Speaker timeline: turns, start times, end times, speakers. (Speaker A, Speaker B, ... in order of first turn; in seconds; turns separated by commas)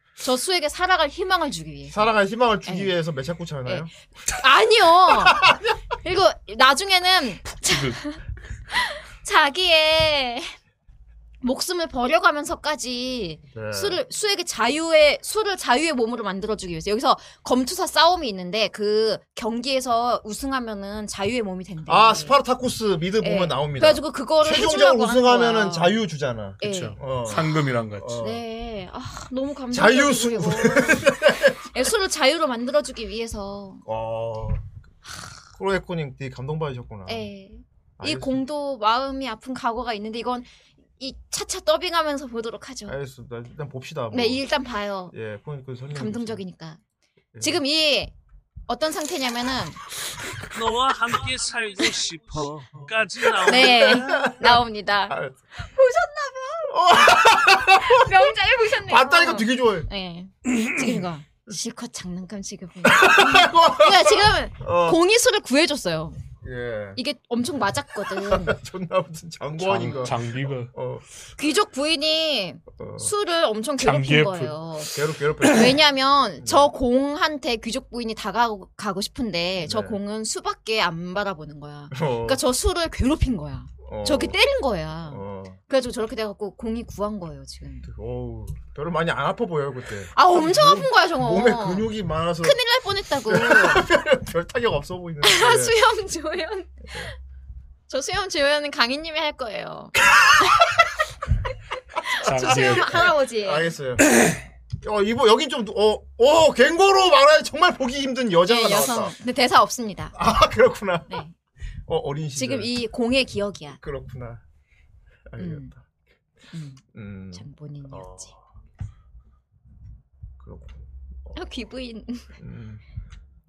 Speaker A: 0.2-2.1, Speaker B: 1.9-3.9, Speaker A: 2.6-2.9, Speaker A: 3.6-5.4, Speaker B: 5.2-5.6, Speaker A: 6.0-8.2, Speaker C: 7.5-8.0, Speaker A: 8.7-10.5, Speaker A: 11.4-22.4, Speaker B: 13.5-14.0, Speaker B: 21.9-27.5, Speaker A: 23.2-26.0, Speaker A: 26.6-27.4, Speaker C: 26.6-28.2, Speaker B: 28.0-28.4, Speaker A: 28.2-31.1, Speaker B: 29.7-31.6, Speaker A: 31.7-33.8, Speaker B: 33.8-34.7, Speaker B: 35.5-37.3, Speaker A: 37.1-40.5, Speaker B: 38.0-38.4, Speaker A: 41.0-43.0, Speaker B: 42.9-44.4, Speaker A: 44.1-45.1, Speaker B: 45.1-46.4, Speaker A: 45.9-46.8, Speaker B: 47.3-47.6, Speaker A: 47.4-48.1, Speaker A: 48.7-49.8, Speaker D: 50.5-54.2, Speaker A: 53.5-56.7, Speaker B: 53.6-55.4, Speaker B: 56.7-58.1, Speaker A: 57.8-66.2, Speaker B: 58.9-59.9, Speaker B: 62.8-65.0, Speaker B: 66.4-67.0, Speaker A: 67.0-68.5, Speaker B: 68.2-71.0, Speaker C: 69.6-70.7, Speaker A: 71.4-87.9, Speaker B: 72.7-73.1, Speaker C: 73.8-74.6, Speaker B: 74.9-75.7, Speaker B: 76.4-76.7, Speaker B: 79.6-80.0, Speaker B: 81.9-82.4, Speaker B: 83.8-84.4, Speaker B: 85.1-85.6, Speaker B: 87.8-92.6, Speaker A: 90.1-91.9, Speaker A: 92.4-93.8, Speaker B: 93.2-95.7, Speaker A: 95.2-97.0, Speaker A: 97.9-99.9, Speaker C: 102.2-103.0, Speaker A: 102.2-103.7, Speaker B: 102.3-104.1, Speaker B: 104.8-109.1, Speaker A: 108.5-110.1, Speaker B: 110.1-111.2, Speaker A: 111.1-111.3, Speaker B: 111.9-112.7, Speaker A: 112.3-113.8, Speaker B: 113.8-114.4, Speaker B: 115.3-115.8, Speaker A: 115.4-115.7, Speaker A: 116.5-116.8, Speaker B: 116.9-118.4, Speaker A: 117.3-118.3, Speaker B: 120.4-121.3, Speaker A: 121.3-122.3, Speaker B: 122.4-122.8